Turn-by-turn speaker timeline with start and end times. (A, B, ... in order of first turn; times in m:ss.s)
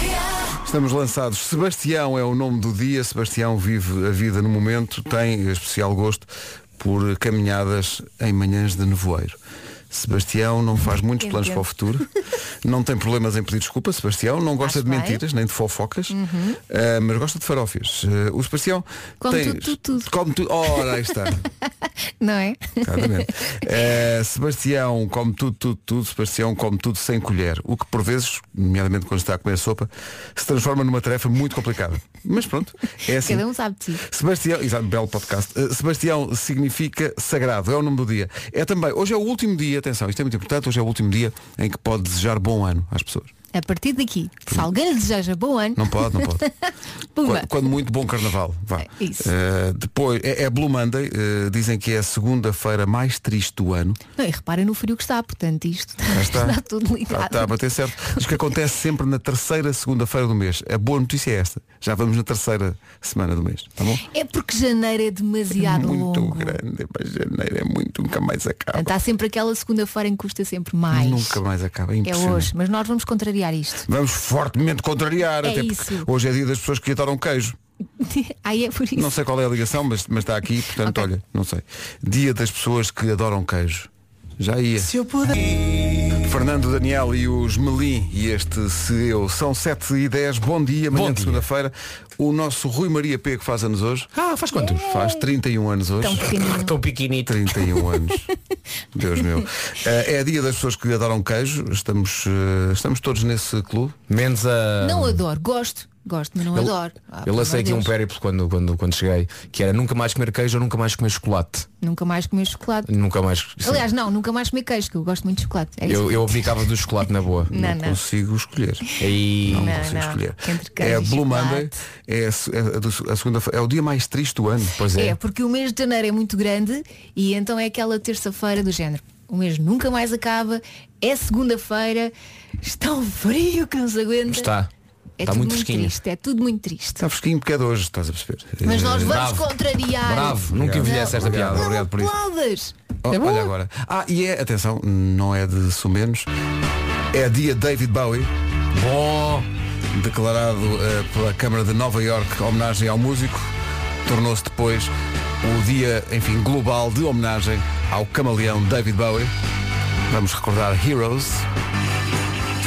0:00.6-0:09.4 A
0:09.9-0:12.1 A
0:11.2-0:11.6 B
0:12.6-0:16.2 A
0:14.6-0:15.2 B
0:16.1-0:16.6 B
0:16.7-0:21.4 A
0:19.2-0:20.1 B
0:22.2-0:23.3 B
0:22.8-0:33.5 A
0:33.2-0:34.0 B
0:34.0-0:43.3 A
0:43.5-0:46.5 B
0:45.8-0:46.4 A
0:47.2-0:47.6 B
0:47.2-0:54.0 A
0:48.8-0:49.3 B
0:54.2-0:58.2 B
0:56.1-0:56.6 A
0:57.1-1:04.0 A
1:04.1-1:06.6 B
1:05.5-1:08.9 A
1:08.8-1:11.4 B
1:10.9-1:12.5 A
1:12.0-1:13.9 B
1:13.9-1:17.6 A
1:15.4-1:16.1 B
1:18.0-1:19.2 B
1:19.0-1:24.9 A
1:24.9-1:25.4 C
1:26.1-1:34.1 A
1:30.9-1:31.5 C
1:34.2-1:34.9 C
1:34.6-1:35.3 B
1:34.8-1:36.4 A
1:36.0-1:36.7 B
1:36.5-1:37.4 C
1:37.2-1:38.3 A
1:38.9-1:44.0 A
1:44.1-1:45.2 C
1:44.8-1:47.9 B
1:46.6-1:51.7 C
1:51.8-1:52.9 B
1:52.9-1:53.9 C
1:53.6-1:56.6 B
1:55.9-1:57.5 C
1:57.5-1:58.9 A
1:57.5-1:58.0 B
1:59.0-1:59.7 C
1:59.4-2:04.7 A
1:59.5-2:01.8 B
2:04.8-2:05.2 C
2:05.0-2:14.5 B
2:14.3-2:14.7 C
2:15.2-2:17.0 B
2:15.2-2:15.9 C
2:17.0-2:19.2 A
2:18.6-2:22.8 B
2:19.0-2:19.5 C
2:20.0-2:21.8 C
2:20.5-2:22.2 A
2:23.0-2:26.3 A
2:23.1-2:23.5 C
2:27.1-2:28.3 A
2:28.7-2:29.5 C
2:29.9-2:33.5 A
2:34.1-2:39.3 A
2:40.1-2:41.5 A